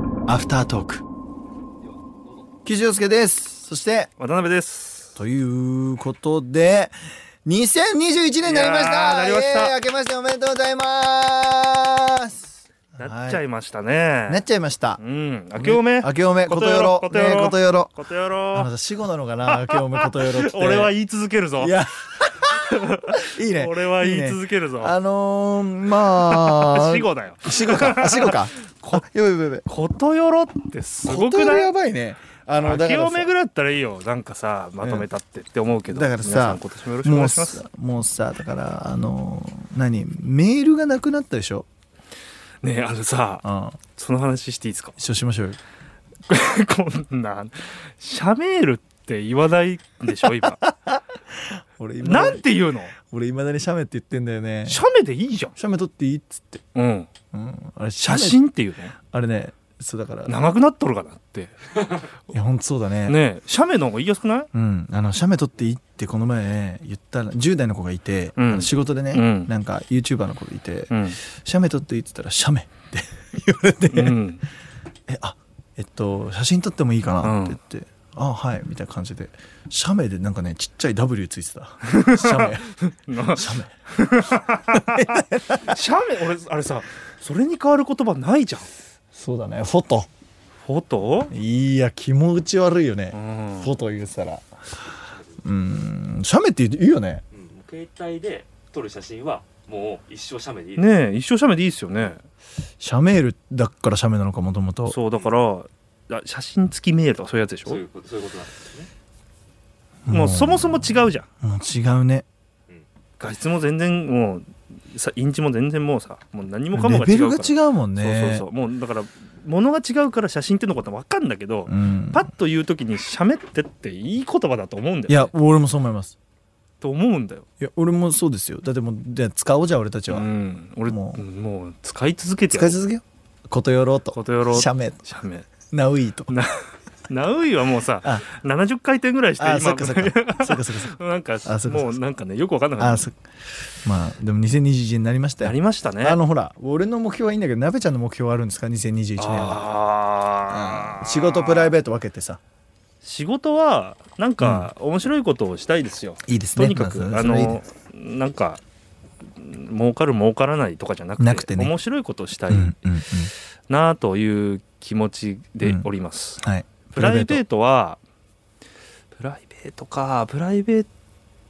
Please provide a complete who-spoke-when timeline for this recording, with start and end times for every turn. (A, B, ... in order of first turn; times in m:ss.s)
0:00.3-0:01.0 A
0:02.6-0:04.1 A
0:04.2-0:05.2 B
0:05.2-0:13.4 A
0:08.4-0:09.8 B
0:13.0-0:14.4 B
0:14.3-0:15.0 A
0:15.0-0:18.7 B
0:15.6-0:18.0 A
0:18.5-0:20.9 A
0:19.4-0:21.8 B
0:21.6-0:29.7 A
0:22.6-0:25.0 B
0:26.0-0:29.0 B
0:29.7-0:31.7 B
0:31.0-0:33.3 A
0:32.5-0:37.6 B
0:35.9-0:41.7 A
0:42.6-0:45.0 B
0:43.4-0:43.8 A
0:45.0-0:45.6 A
0:46.3-0:50.6 B
0:50.4-0:51.0 A
0:51.8-0:54.8 A
0:52.0-0:52.9 B
0:54.7-0:55.6 B
0:55.6-0:56.6 A
0:56.7-0:57.1 B
0:57.3-0:58.4 A
0:58.0-0:59.0 B
0:59.0-1:00.4 A
1:00.2-1:02.4 B
1:02.3-1:03.2 A
1:03.1-1:04.5 B
1:04.5-1:14.2 A
1:08.4-1:09.5 B
1:10.9-1:11.2 B
1:13.9-1:14.4 B
1:15.1-1:22.7 A
1:17.2-1:17.6 B
1:21.8-1:28.7 B
1:23.2-1:23.7 A
1:24.7-1:25.8 A
1:29.1-1:30.1 A
1:30.6-1:31.3 B
1:31.3-1:34.4 A
1:33.1-1:33.7 B
1:35.4-1:37.2 A
1:37.3-1:40.9 C
1:40.8-1:42.2 B
1:42.8-1:45.0 A
1:44.9-1:47.8 B
1:47.7-1:48.9 C
1:50.1-1:52.2 A
1:50.1-1:51.2 B
1:53.2-2:05.3 B
1:56.7-1:58.5 A
2:01.7-2:02.3 A
2:05.1-2:06.2 A
2:06.8-2:07.4 B
2:07.6-2:10.3 A
2:10.1-2:12.8 B
2:10.9-2:11.2 A
2:12.5-2:15.0 A
2:14.1-2:15.5 B
2:15.7-2:16.3 A
2:16.3-2:16.6 B
2:17.1-2:23.1 B
2:19.4-2:22.0 A
2:22.8-2:23.2 A
2:23.8-2:29.7 A
2:25.4-2:26.2 B
2:29.2-2:31.7 B
2:30.5-2:32.4 A
2:33.0-2:38.6 B
2:34.4-2:34.7 A
2:36.2-2:37.6 A
2:39.4-2:43.1 B
2:41.2-2:41.7 A
2:42.5-2:43.3 A
2:43.7-2:48.0 B
2:45.6-2:45.9 A
2:46.4-2:47.4 A
2:49.1-2:50.9 B